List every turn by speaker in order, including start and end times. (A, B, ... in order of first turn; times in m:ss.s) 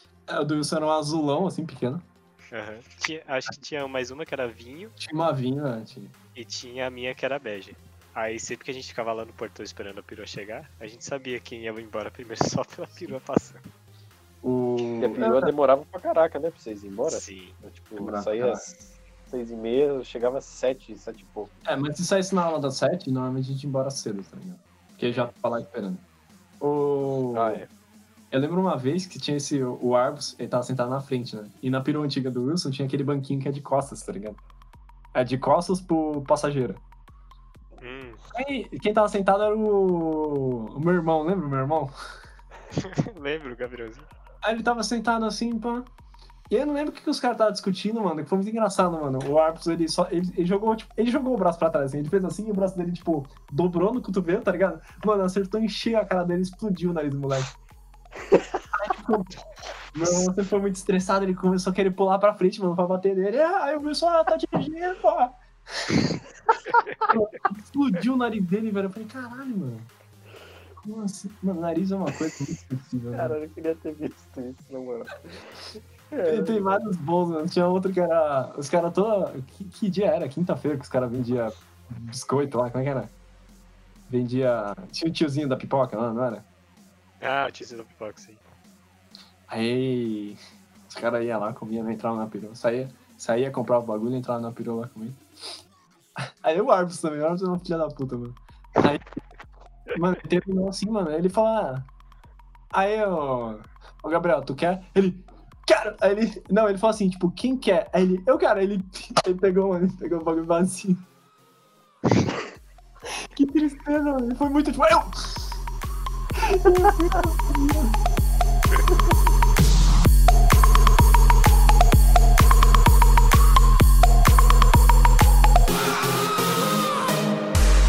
0:00.3-0:02.0 A
0:02.5-0:04.9 B
0:05.0-0:06.2 A
0:06.4-0:13.6 B
0:14.4-0:15.5 A
0:15.0-0:21.5 C
0:17.1-0:17.6 B
0:18.0-0:18.7 A
0:21.6-0:26.0 A
0:26.6-0:27.6 A
0:27.3-0:27.7 C
0:28.3-0:34.4 A
0:35.1-0:36.8 A
0:37.8-0:38.2 B
0:38.3-0:41.9 A
0:42.7-0:44.1 B
0:44.4-0:45.9 A
0:46.5-0:57.5 A
0:58.7-0:59.4 A
0:59.9-1:05.9 A
1:07.0-1:09.9 A
1:10.8-1:13.4 A
1:13.1-1:16.8 C
1:16.3-1:23.1 A
1:24.1-1:26.4 A
1:27.2-1:28.4 B
1:29.5-1:35.2 A
1:36.2-1:39.1 A
1:39.9-1:41.9 A
1:42.7-1:51.0 A
1:53.4-1:55.6 A
1:56.4-1:58.0 A